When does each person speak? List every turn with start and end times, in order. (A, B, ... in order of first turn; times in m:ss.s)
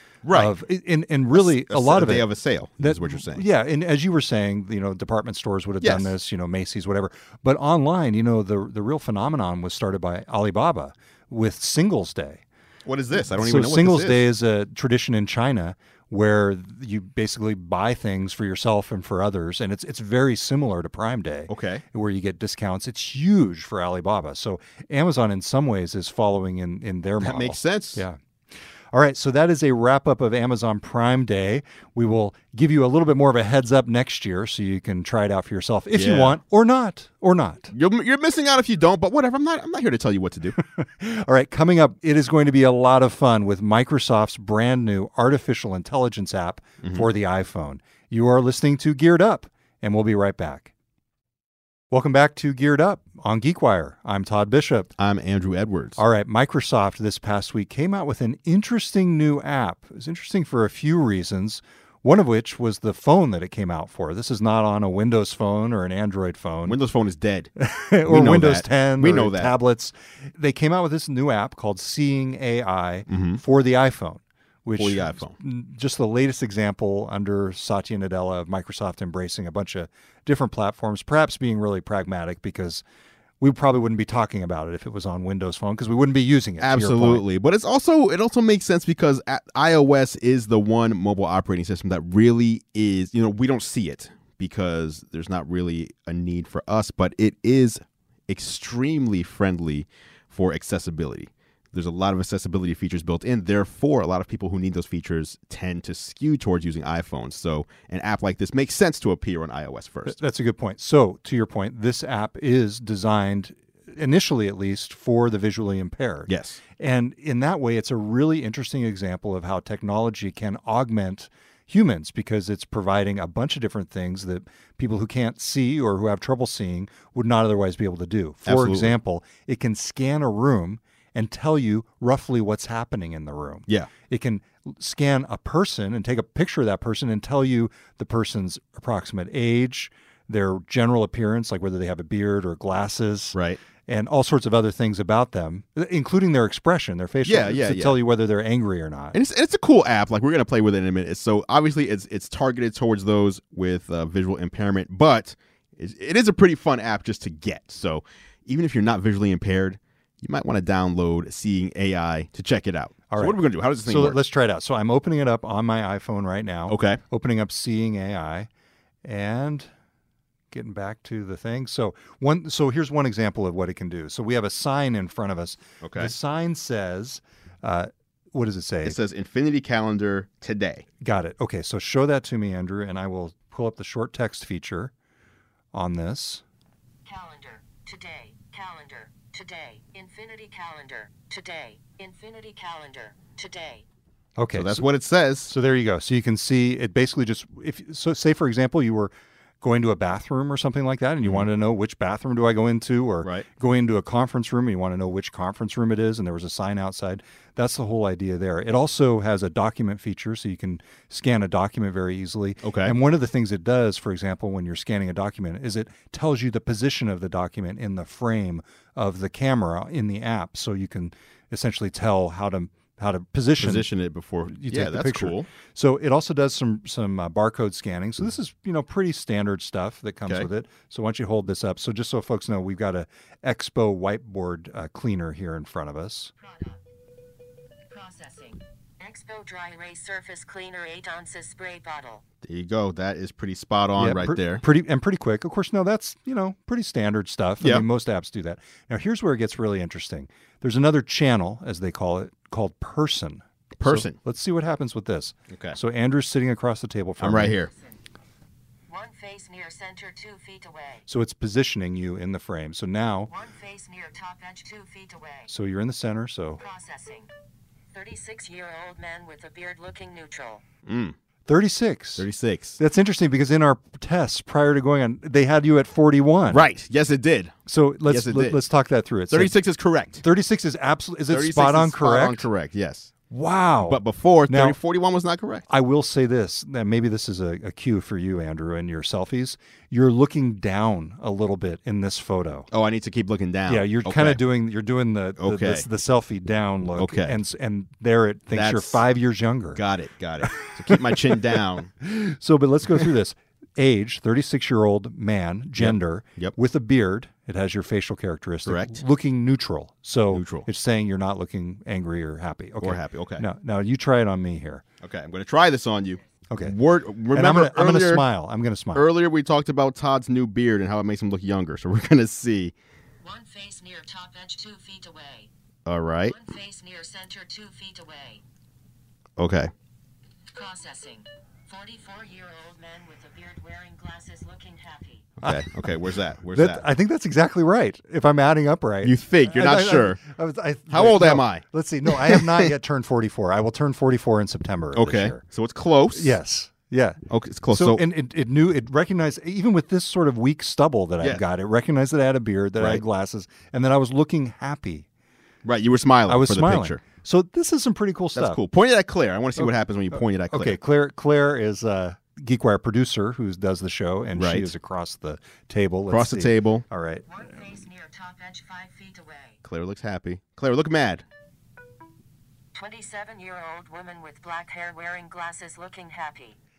0:00.2-0:00.5 A
0:00.3-0:02.3 B
0:01.3-0:03.4 A
0:02.8-0:12.4 B
0:05.8-0:06.1 A
0:12.8-0:14.3 A
0:13.2-0:28.2 B
0:21.5-0:21.8 A
0:27.2-0:28.0 A
0:28.9-0:37.7 B
0:35.9-0:36.4 A
0:37.7-0:40.5 A
0:40.6-0:50.7 B
0:51.9-0:54.9 B
0:55.0-0:56.0 A
0:56.0-1:06.8 B
1:06.6-1:07.5 A
1:07.6-1:22.8 B
1:08.0-1:09.5 A
1:13.1-1:13.4 A
1:14.8-1:15.3 A
1:23.4-1:27.2 B
1:26.6-1:50.2 A
1:50.0-2:29.2 B
1:56.3-1:56.6 A
2:08.4-2:08.9 A
2:23.3-2:23.6 A
2:27.2-2:28.0 A
2:29.1-2:44.2 A
2:43.1-2:48.5 B
2:46.7-2:47.0 A
2:49.0-2:49.7 B
2:50.5-2:59.0 B
2:55.8-2:56.1 A
2:58.8-3:00.8 A
3:01.0-3:04.9 B
3:05.7-3:06.4 B
3:07.0-3:13.8 C
3:14.4-3:14.8 B
3:14.5-3:15.5 A
3:15.5-3:43.9 B
3:32.6-3:32.9 A
3:43.6-3:45.5 A
3:44.5-3:56.3 B
3:56.4-3:56.8 C
3:57.9-4:02.2 C
4:02.4-4:04.6 A
4:04.0-4:17.6 B
4:13.8-4:14.2 A
4:15.5-4:15.8 A
4:17.2-4:17.7 A
4:18.9-4:21.0 C
4:21.1-4:23.3 B
4:23.3-4:25.5 C
4:25.5-4:26.6 B
4:26.6-4:27.3 C
4:27.9-4:30.6 C
4:30.8-4:31.2 A
4:31.5-4:32.2 B
4:32.2-4:32.8 A
4:32.8-4:36.6 B
4:36.5-4:37.6 A
4:37.7-4:39.5 B
4:38.1-4:38.6 A
4:39.3-4:40.2 A
4:40.2-4:42.5 B
4:41.3-4:43.1 A
4:43.3-4:44.8 B
4:43.8-4:45.6 A
4:45.7-4:52.7 B
4:52.7-4:54.4 A
4:53.7-4:59.8 B
4:55.4-4:55.8 A
4:57.0-4:57.3 A
4:58.5-4:59.0 A
4:59.7-5:01.9 A
5:00.4-5:01.3 B
5:02.0-5:14.8 B
5:05.8-5:06.5 A
5:08.6-5:09.0 A
5:10.3-5:10.7 A
5:12.8-5:13.4 A
5:15.0-5:18.2 A
5:16.5-5:16.7 B
5:17.3-5:19.1 B
5:18.9-5:22.7 A
5:23.2-5:25.5 C
5:25.8-5:26.4 A
5:26.3-5:28.4 C
5:29.4-5:29.7 A
5:30.5-5:35.3 C
5:35.4-5:35.7 B
5:35.4-5:36.8 A
5:36.5-5:45.4 B
5:39.0-5:40.2 A
5:40.9-5:42.7 A
5:44.9-5:46.3 A
5:46.1-5:47.2 B
5:47.3-5:48.0 A
5:47.7-5:55.0 B
5:55.6-5:57.0 A
5:56.3-5:58.6 B
5:58.3-6:00.8 A
6:00.5-6:07.2 B
6:04.4-6:04.7 A
6:06.1-6:06.8 A
6:07.3-6:09.6 C
6:09.6-6:11.2 A
6:12.7-6:16.6 C